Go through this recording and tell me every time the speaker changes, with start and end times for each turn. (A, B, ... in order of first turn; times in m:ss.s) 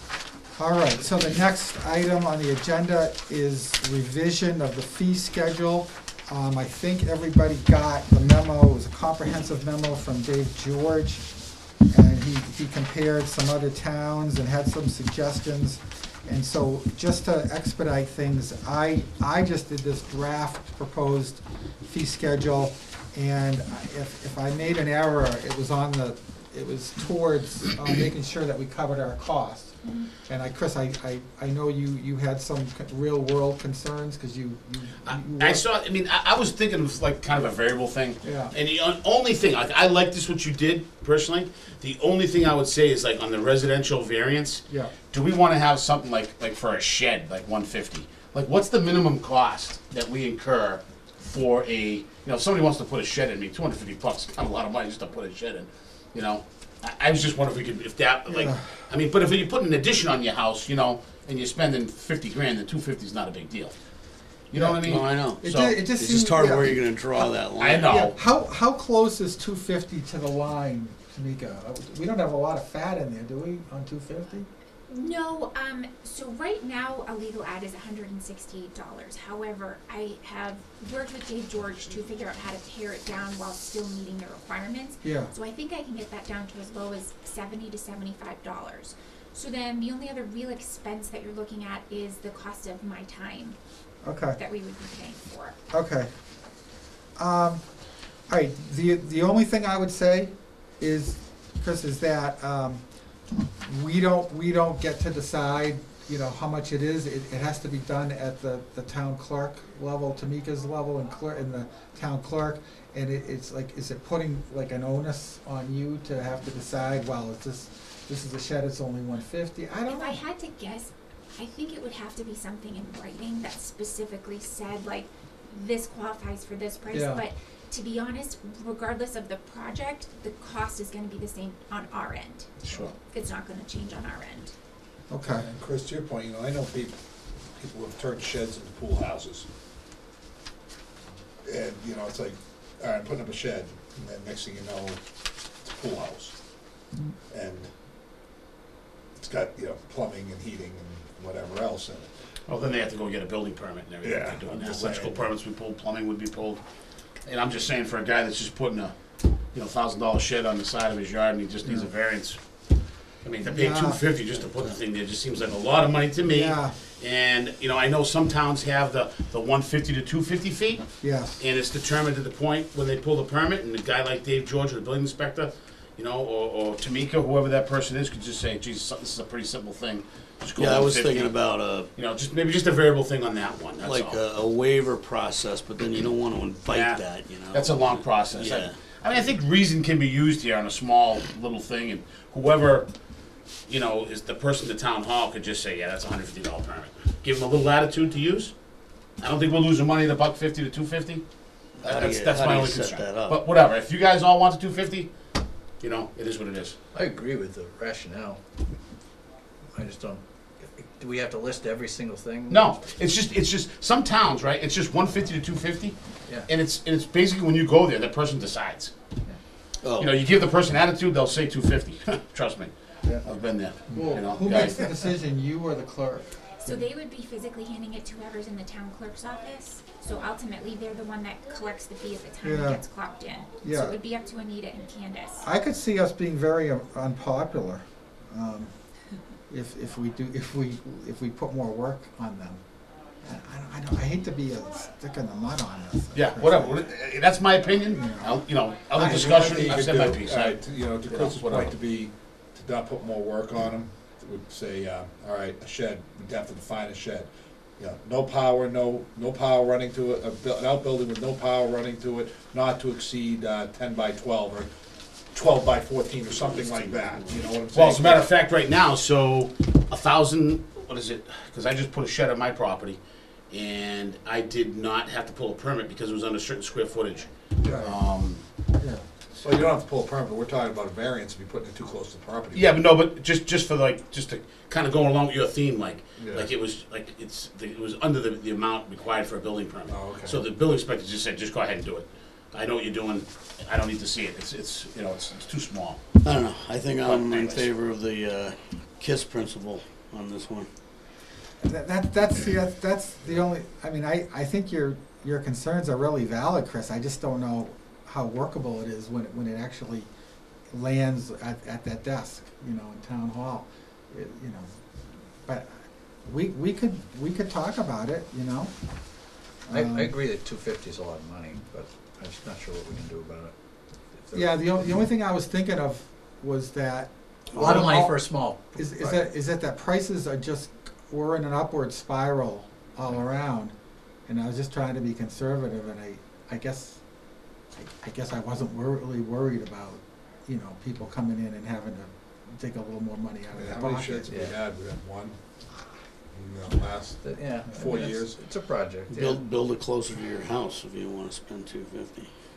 0:00.6-0:35.7 A
0:29.8-0:30.1 B
0:35.0-1:05.8 C
0:38.2-0:38.6 A
0:44.7-0:44.9 A
0:58.3-0:58.9 A
1:04.5-1:07.3 A
1:04.8-1:07.9 D
1:07.6-1:08.2 C
1:07.8-1:14.5 A
1:14.9-1:33.6 B
1:25.0-1:25.3 A
1:34.0-1:34.4 A
1:34.1-1:35.6 B
1:35.7-1:36.6 A
1:37.2-2:00.2 A
1:59.9-2:14.6 B
2:06.9-2:07.2 A
2:12.6-2:13.0 C
2:15.1-2:15.5 A
2:15.4-2:19.5 E
2:21.4-2:27.8 E
2:29.2-2:32.3 E
2:32.4-3:04.2 C
2:34.0-2:35.2 E
2:41.6-2:41.9 A
2:43.4-2:44.1 A
2:46.2-2:46.8 A
2:51.0-2:51.4 A
3:00.6-3:01.9 D
3:03.8-3:09.2 D
3:06.7-3:26.8 C
3:21.8-3:23.4 D
3:26.9-3:28.4 F
3:29.7-3:33.0 F
3:32.5-3:39.0 C
3:39.8-3:40.1 D
3:40.0-3:44.9 C
3:43.9-3:46.8 A
3:46.6-3:55.4 B
3:52.4-3:52.9 A
3:53.6-3:54.0 A
3:55.4-4:02.7 A
4:03.2-4:06.8 A
4:06.1-4:11.8 C
4:07.9-4:09.7 A
4:09.0-4:24.7 E
4:25.3-4:28.3 E
4:26.3-4:27.4 D
4:27.7-4:38.4 C
4:37.6-4:39.1 A
4:39.3-4:42.7 E
4:42.5-4:56.2 C
4:49.9-4:50.4 E
4:56.2-5:00.7 D
4:57.0-4:57.7 C
5:01.6-5:10.1 A
5:10.7-5:20.1 A
5:19.7-5:25.1 F
5:24.3-5:44.3 A
5:27.5-5:29.3 F
5:43.5-5:45.4 E
5:44.3-5:44.6 F
5:46.3-5:48.4 E
5:47.2-5:49.5 F
5:49.1-5:52.3 D